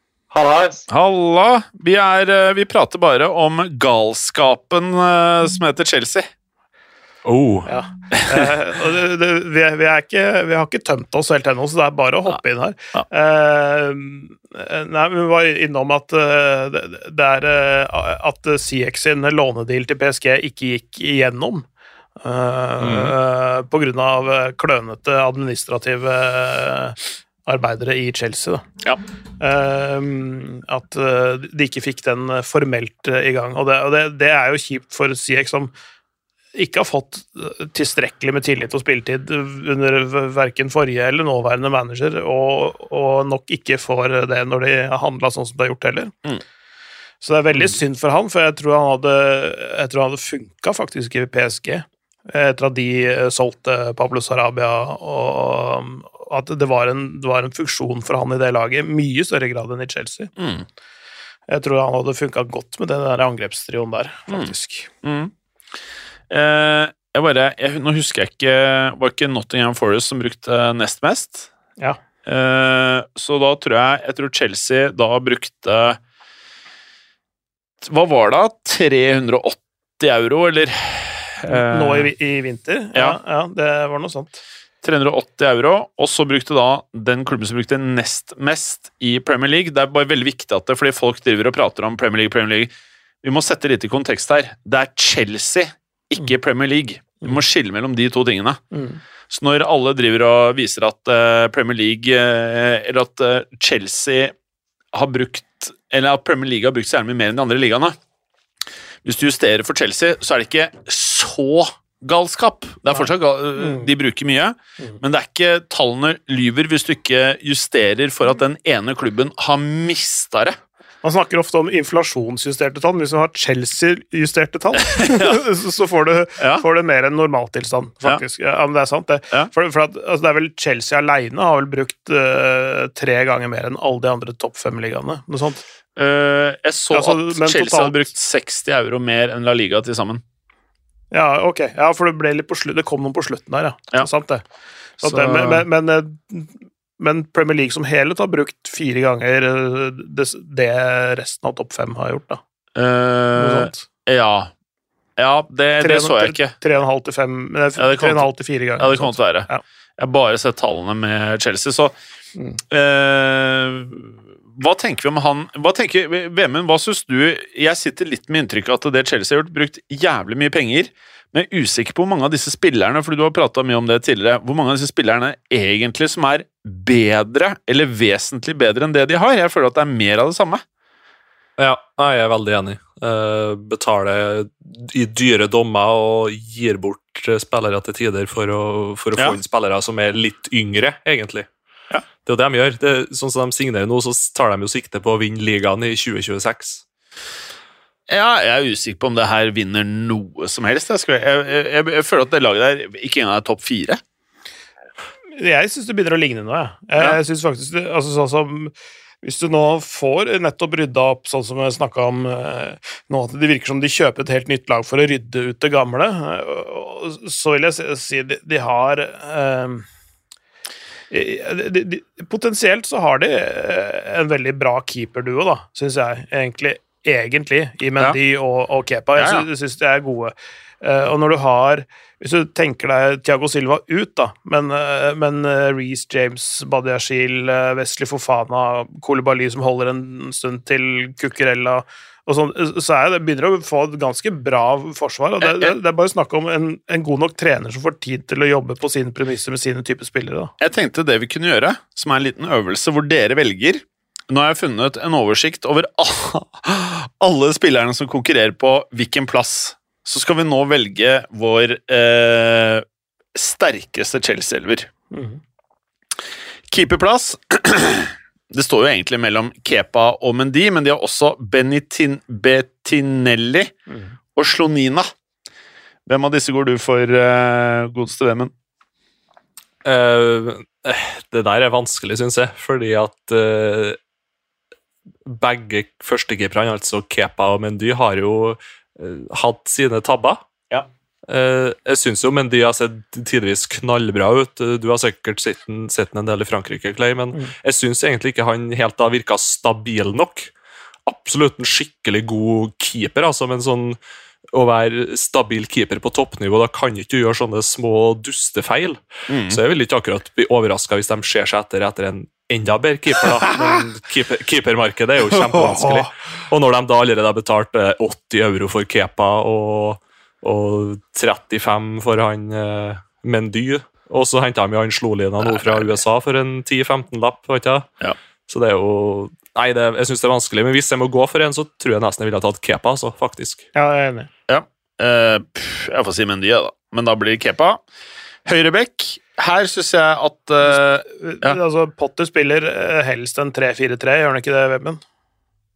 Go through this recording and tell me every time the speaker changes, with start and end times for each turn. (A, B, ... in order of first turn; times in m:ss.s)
0:00.3-0:00.8 A
0:00.9-0:06.3 B
0:07.2-0:07.7 A
0:07.6-0:21.6 C
0:08.1-0:08.5 B
0:22.2-0:28.6 C
0:29.4-0:35.7 C
0:36.5-0:46.1 C
0:47.2-1:00.3 C
1:00.4-1:00.6 B
1:01.5-1:04.9 C
1:04.3-1:05.3 B
1:06.3-1:11.5 B
1:12.2-1:16.0 B
1:17.8-1:22.1 B
1:21.5-1:24.4 C
1:24.8-1:32.7 B
1:33.2-1:38.6 B
1:38.7-1:39.0 C
1:39.3-1:44.3 B
1:44.9-1:48.0 B
1:49.0-2:00.6 B
2:01.0-2:15.6 C
2:05.0-2:05.4 B
2:16.0-2:20.2 B
2:16.9-2:18.1 C
2:21.1-2:24.4 C
2:25.0-2:32.4 C
2:25.0-2:25.6 B
2:32.7-2:34.5 B
2:33.4-2:33.8 C
2:35.2-2:36.5 B
2:35.8-2:39.6 C
2:37.8-2:41.9 B
2:42.7-3:00.6 B
3:01.6-3:11.5 A
3:12.2-3:16.8 A
3:18.1-3:24.0 B
3:25.4-3:39.8 C
3:41.1-4:10.5 C
3:49.2-3:49.4 B
4:05.4-4:05.7 B
4:10.6-4:24.9 B
4:25.1-4:25.4 C
4:26.7-4:33.7 B
4:34.4-4:35.1 B
4:36.1-4:38.5 B
4:39.8-4:44.0 A
4:45.2-4:50.4 A
4:51.3-5:00.5 A
5:01.0-5:04.0 A
5:04.5-5:27.9 A
5:09.3-5:09.6 B
5:13.4-5:13.8 B
5:15.3-5:16.1 B
5:25.4-5:25.9 B
5:28.5-5:33.6 A
5:33.7-5:34.3 C
5:34.5-5:37.8 B
5:38.4-5:41.6 B
5:40.7-5:45.0 C